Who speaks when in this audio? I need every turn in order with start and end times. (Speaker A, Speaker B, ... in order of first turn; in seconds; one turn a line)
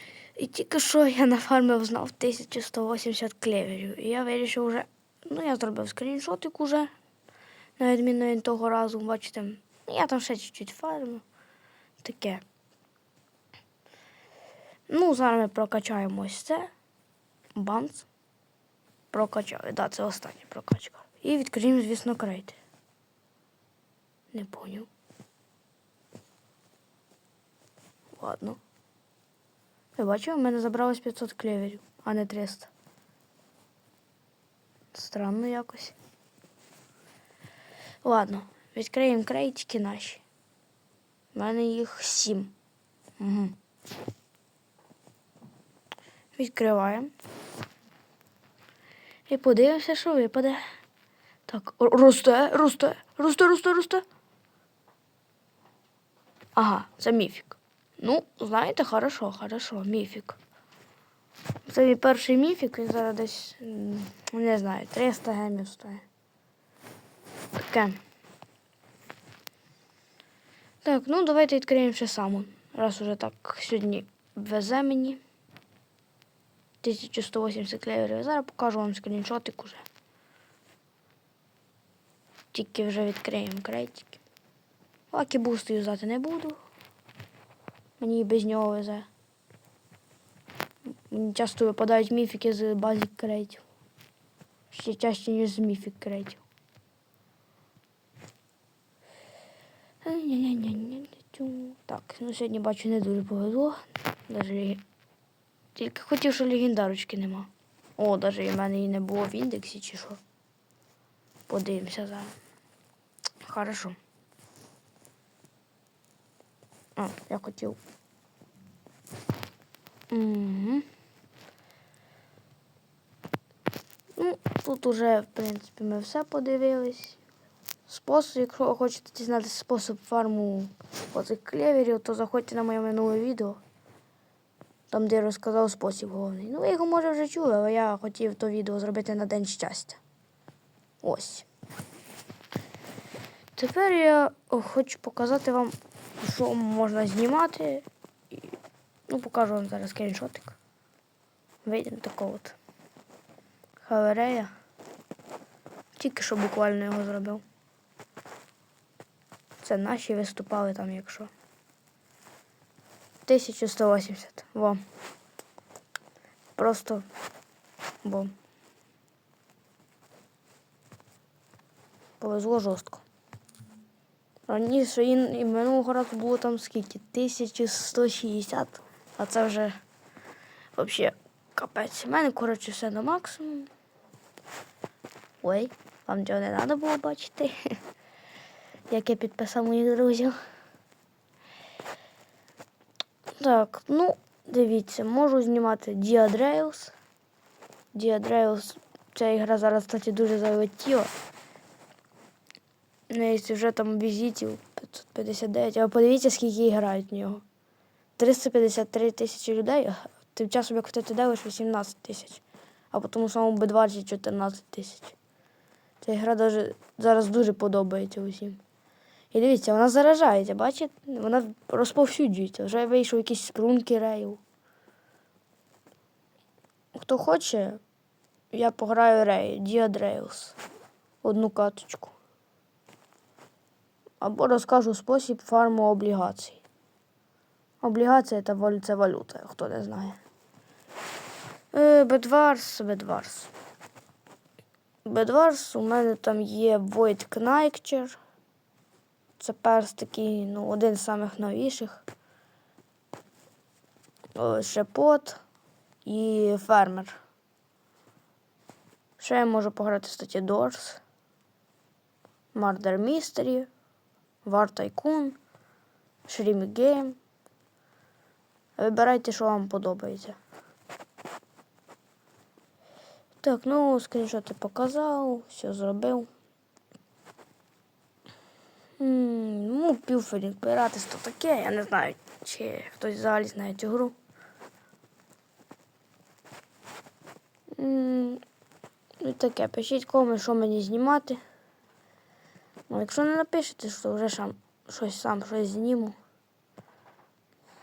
Speaker A: 0.4-6.9
Speaker A: 7.8-11.2
Speaker A: 12.0-12.4
Speaker A: 14.9-16.7
Speaker A: 17.5-18.1
Speaker A: 19.1-22.6
Speaker A: 24.3-24.9
Speaker A: 28.1-28.6
Speaker A: 30.0-32.7
Speaker A: 34.9-36.0
Speaker A: 38.0-40.2
Speaker A: 41.3-42.5
Speaker A: 43.2-43.5
Speaker A: 46.4-47.1
Speaker A: 49.3-50.6
Speaker A: 51.5-54.0
Speaker A: 56.5-60.4
Speaker A: 61.6-66.0
Speaker A: 67.6-68.0
Speaker A: 70.8-75.2
Speaker A: 76.8-79.8
Speaker A: 82.5-84.2
Speaker A: 85.1-86.6
Speaker A: 88.0-89.1
Speaker A: 91.1-93.6
Speaker A: 94.7-96.4
Speaker A: 100.0-104.8
Speaker A: 105.7-110.2
Speaker A: 111.5-112.3
Speaker A: 113.4-114.0
Speaker A: 117.0-117.8
Speaker A: 120.1-120.8
Speaker A: 124.2-127.2
Speaker A: 127.9-133.6
Speaker A: 134.9-140.0
Speaker A: 141.0-141.4
Speaker A: 143.6-148.4
Speaker A: 149.1-150.6
Speaker A: 151.6-152.6
Speaker A: 153.8-154.5
Speaker A: 155.9-157.4
Speaker A: 159.6-161.3
Speaker A: 163.2-164.8
Speaker A: 166.6-167.0
Speaker A: 168.0-168.3
Speaker A: 172.2-173.0
Speaker A: 174.5-179.8
Speaker A: 180.8-183.7
Speaker A: 185.4-187.7
Speaker A: 188.9-190.3
Speaker A: 193.4-196.9
Speaker A: 197.9-201.1
Speaker A: 203.1-207.4
Speaker A: 208.2-215.2
Speaker A: 216.0-218.6
Speaker A: 219.3-224.4
Speaker A: 226.9-227.8
Speaker A: 228.5-230.6
Speaker A: 231.2-232.1
Speaker A: 234.2-236.6
Speaker A: 237.8-240.2
Speaker A: 241.7-243.5
Speaker A: 245.0-248.2
Speaker A: 249.4-252.0
Speaker A: 254.3-255.4
Speaker A: 256.0-257.2
Speaker A: 259.2-261.0
Speaker A: 262.5-263.7
Speaker A: 264.4-265.4
Speaker A: 266.2-267.2
Speaker A: 268.8-270.4
Speaker A: 273.4-276.3
Speaker A: 279.0-284.1
Speaker A: 287.8-288.4
Speaker A: 289.2-291.4
Speaker A: 292.9-296.1